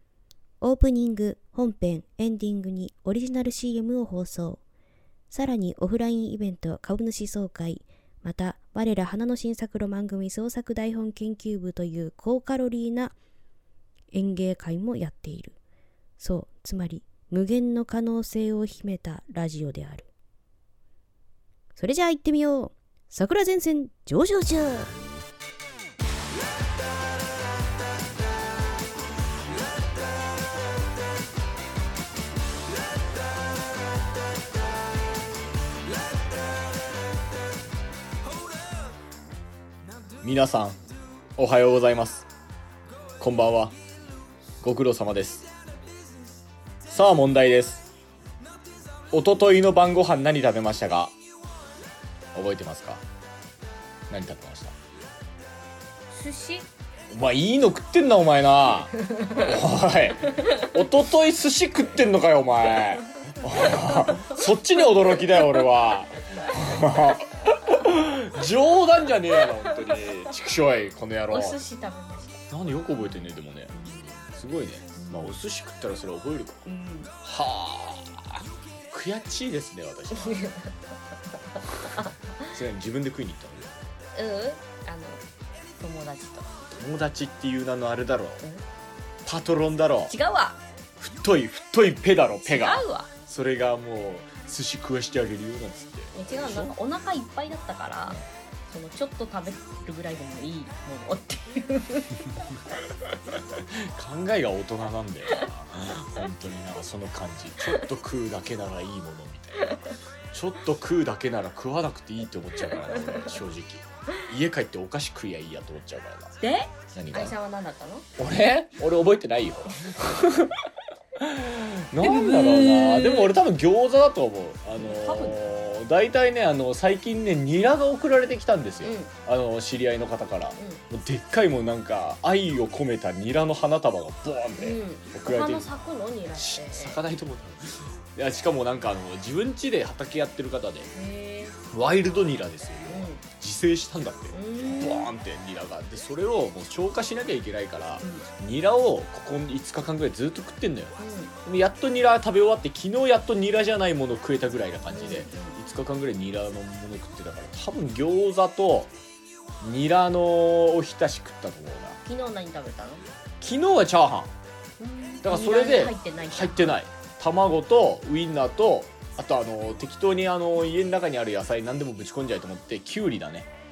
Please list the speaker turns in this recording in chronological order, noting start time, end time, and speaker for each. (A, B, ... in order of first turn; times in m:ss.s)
0:00.6-0:04.6 A
0:05.3-0:13.2 A
0:14.1-0:15.6 A
0:16.2-0:20.1 A
0:21.8-0:25.0 A
0:40.2-0:40.8 B
0:41.4-0:42.3 B
0:43.2-0:43.8 B
0:44.6-0:45.5 B
0:46.9-0:47.9 B
0:49.1-0:51.2 B
0:52.3-0:53.0 B
0:54.1-0:54.8 B
0:56.1-0:56.7 C
0:57.1-1:11.6 B
0:59.1-0:59.5 C
1:03.9-1:04.3 C
1:09.7-1:09.9 C
1:11.3-1:12.4 C
1:12.5-1:13.7 B
1:13.0-1:14.2 C
1:14.3-1:16.7 B
1:15.0-1:15.4 C
1:16.7-1:17.1 C
1:17.2-1:20.4 B
1:20.2-1:20.7 C
1:21.6-1:22.5 C
1:22.5-1:23.8 B
1:24.2-1:25.2 C
1:25.8-1:26.5 C
1:26.7-1:28.4 B
1:29.2-1:30.1 B
1:30.1-1:30.6 C
1:31.0-1:36.8 B
1:32.4-1:33.1 C
1:36.1-1:42.5 C
1:43.5-1:56.4 B
1:52.6-1:53.4 C
1:56.4-1:58.1 C
1:56.9-1:57.4 B
1:58.2-2:00.6 B
2:01.2-2:15.7 B
2:02.0-2:03.4 C
2:04.8-2:05.4 C
2:08.8-2:09.1 C
2:10.6-2:10.8 C
2:14.6-2:17.0 C
2:16.4-2:20.9 B
2:20.9-2:21.6 C
2:21.7-2:38.9 B
2:22.9-2:23.2 C
2:24.3-2:25.1 C
2:28.0-2:28.3 C
2:31.0-2:31.4 C
2:34.9-2:35.6 C
2:39.6-2:42.0 B
2:42.0-2:43.0 C
2:43.4-2:44.3 B
2:44.8-2:46.8 C
2:45.2-2:53.5 B